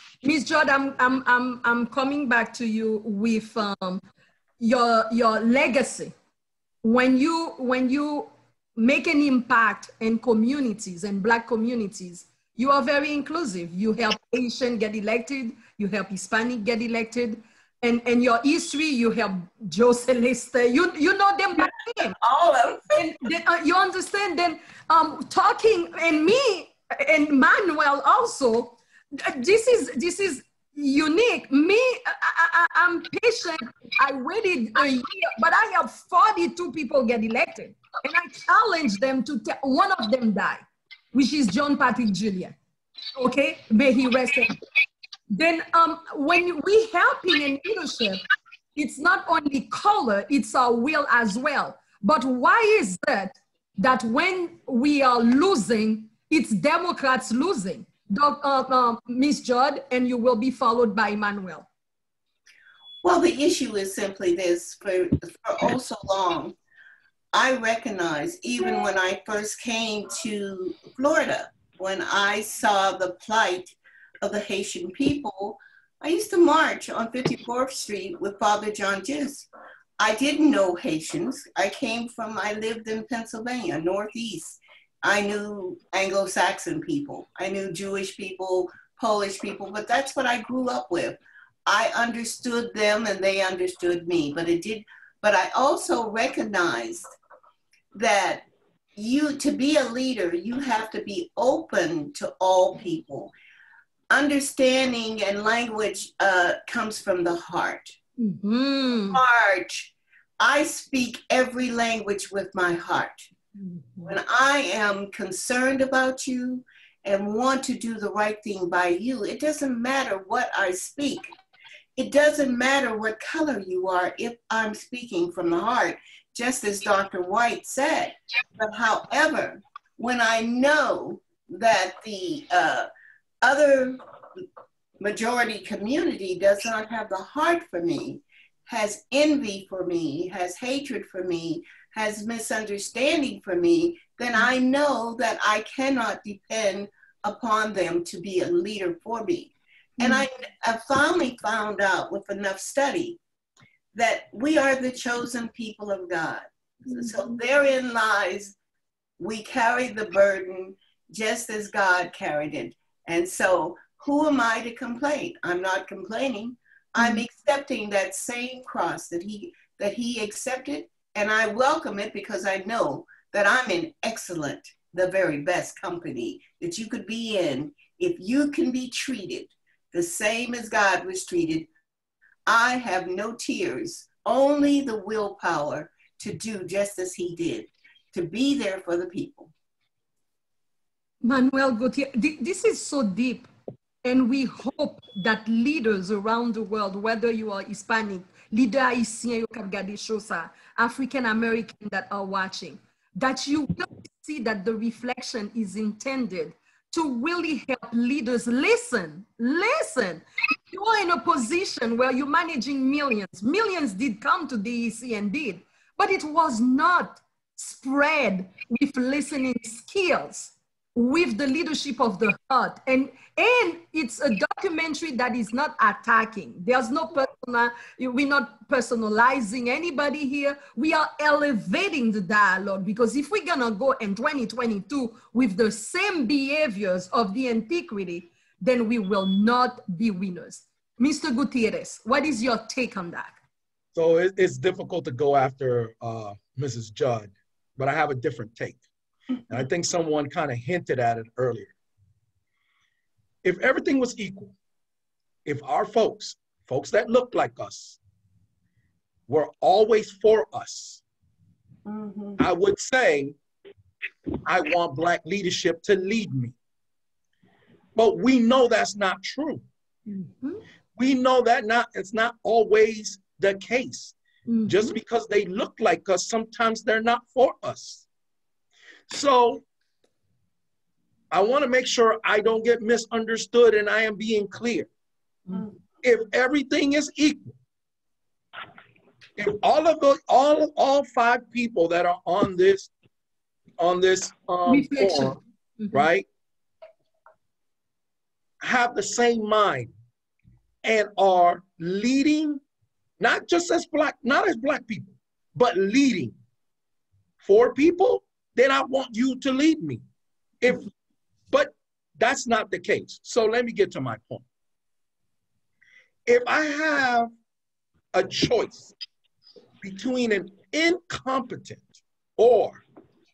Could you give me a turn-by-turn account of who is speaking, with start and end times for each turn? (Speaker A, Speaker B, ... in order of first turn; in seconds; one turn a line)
Speaker A: 0.2-4.0
Speaker A: 4.6-6.1
Speaker A: 6.8-22.1
Speaker B: 22.0-23.0
Speaker A: 22.9-42.5
Speaker A: 43.2-44.6
Speaker A: 45.3-48.2
Speaker A: 48.7-61.7
Speaker B: 63.0-66.5
Speaker B: 67.3-79.5
Speaker B: 80.0-97.0
Speaker B: 97.9-103.3
Speaker B: 104.1-108.0
Speaker A: 108.2-109.2
Speaker B: 109.1-113.3
Speaker A: 113.6-114.1
Speaker B: 114.1-121.3
Speaker B: 122.0-132.9
Speaker B: 133.4-134.0
Speaker B: 135.0-153.2
Speaker A: 150.0-150.2
Speaker B: 153.9-158.5
Speaker A: 156.9-157.3
Speaker B: 159.2-181.7
Speaker A: 167.0-167.2
Speaker B: 182.4-189.5
Speaker A: 191.2-193.5
Speaker A: 194.0-243.4
Speaker C: 243.9-248.8
Speaker C: 249.5-251.7
Speaker C: 253.4-254.6
Speaker C: 255.4-258.0
Speaker C: 259.3-261.0
Speaker B: 261.9-262.4
Speaker C: 262.4-263.4
Speaker C: 264.4-266.5
Speaker C: 267.9-269.6
Speaker A: 270.1-270.6
Speaker C: 271.0-274.1
Speaker A: 274.5-274.9
Speaker C: 274.7-278.1
Speaker C: 279.1-279.6
Speaker C: 281.3-284.9
Speaker C: 286.0-287.6
Speaker C: 289.4-292.9
Speaker C: 293.8-295.4
Speaker A: 294.7-296.1
Speaker C: 295.9-296.2
Speaker C: 298.6-299.9
Speaker C: 300.8-302.6
Speaker C: 303.2-306.4
Speaker C: 307.4-310.0
Speaker C: 310.6-310.9
Speaker C: 311.5-314.4
Speaker C: 316.3-317.3
Speaker C: 318.1-318.9
Speaker C: 319.8-322.8